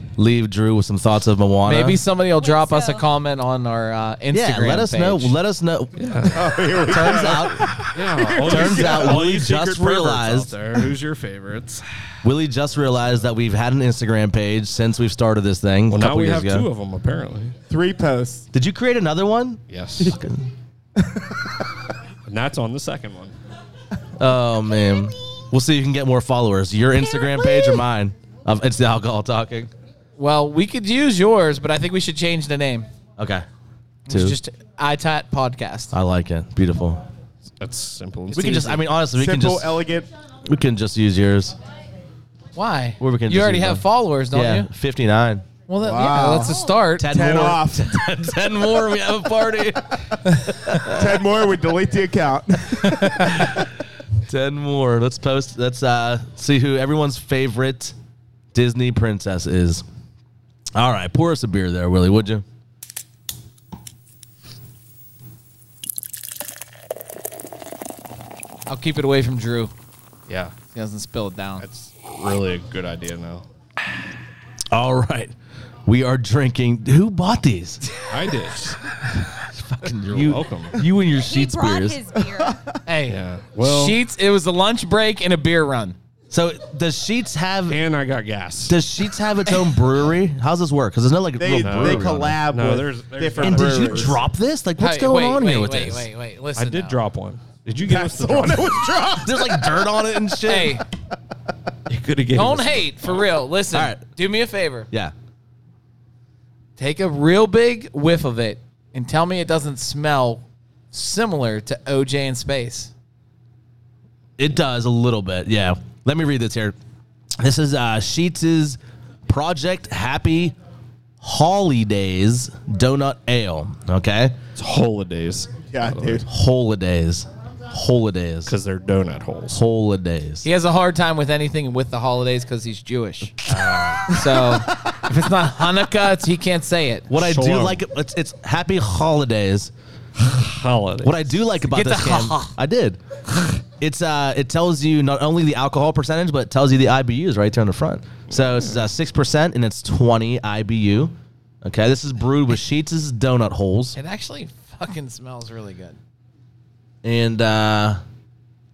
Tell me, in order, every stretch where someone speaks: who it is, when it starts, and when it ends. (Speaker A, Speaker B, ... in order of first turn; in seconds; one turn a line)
Speaker A: 0.2-2.0
Speaker B: 1.6-5.4
Speaker C: 2.2-3.1
Speaker A: 4.3-10.6
Speaker D: 6.0-11.8
Speaker E: 6.3-9.2
Speaker A: 12.2-16.7
Speaker D: 15.9-17.5
Speaker E: 17.7-18.5
Speaker A: 18.5-20.4
Speaker D: 19.7-20.2
Speaker E: 21.0-21.3
Speaker D: 22.3-23.4
Speaker A: 24.2-29.7
Speaker B: 30.2-32.9
Speaker A: 33.2-33.5
Speaker B: 34.1-35.9
Speaker A: 34.1-34.4
Speaker A: 35.9-37.0
Speaker D: 37.6-38.8
Speaker A: 38.3-39.8
Speaker E: 39.1-40.1
Speaker A: 40.5-41.6
Speaker B: 42.5-44.7
Speaker A: 43.0-45.5
Speaker B: 45.7-47.1
Speaker E: 45.8-48.1
Speaker C: 46.4-46.7
Speaker A: 47.0-51.2
Speaker E: 50.8-53.6
Speaker A: 53.2-53.6
Speaker A: 54.2-58.0
Speaker A: 58.5-59.9
Speaker A: 60.8-62.5
Speaker B: 68.7-69.7
Speaker D: 70.3-70.5
Speaker B: 70.7-71.7
Speaker D: 71.6-73.5
Speaker A: 74.7-75.3
Speaker A: 75.9-77.8
Speaker D: 78.1-78.8
Speaker A: 79.8-82.0
Speaker D: 80.1-80.8
Speaker C: 81.2-82.6
Speaker B: 82.9-86.0
Speaker D: 83.1-84.0
Speaker A: 86.3-87.8
Speaker D: 87.7-88.8
Speaker A: 88.7-92.4
Speaker E: 91.4-94.2
Speaker D: 91.6-94.2
Speaker A: 93.4-96.1
Speaker B: 94.8-97.0
Speaker D: 96.6-99.0
Speaker E: 97.8-99.8
Speaker A: 99.2-100.8
Speaker B: 100.5-100.8
Speaker D: 101.9-103.3
Speaker B: 102.3-104.9
Speaker A: 103.7-104.0
Speaker B: 106.8-112.9
Speaker A: 114.4-116.8
Speaker A: 117.4-120.5
Speaker A: 121.2-124.4
Speaker D: 124.6-126.2
Speaker E: 125.7-126.3
Speaker A: 126.3-128.5
Speaker D: 128.5-129.6
Speaker A: 129.5-130.5
Speaker B: 130.4-133.4
Speaker D: 133.5-134.1
Speaker B: 134.1-137.1
Speaker A: 137.1-139.7
Speaker D: 137.1-137.8
Speaker D: 140.2-141.4
Speaker A: 141.0-143.0
Speaker B: 141.7-142.6
Speaker A: 143.8-154.0
Speaker D: 148.3-148.8
Speaker B: 154.0-156.0
Speaker A: 157.0-158.0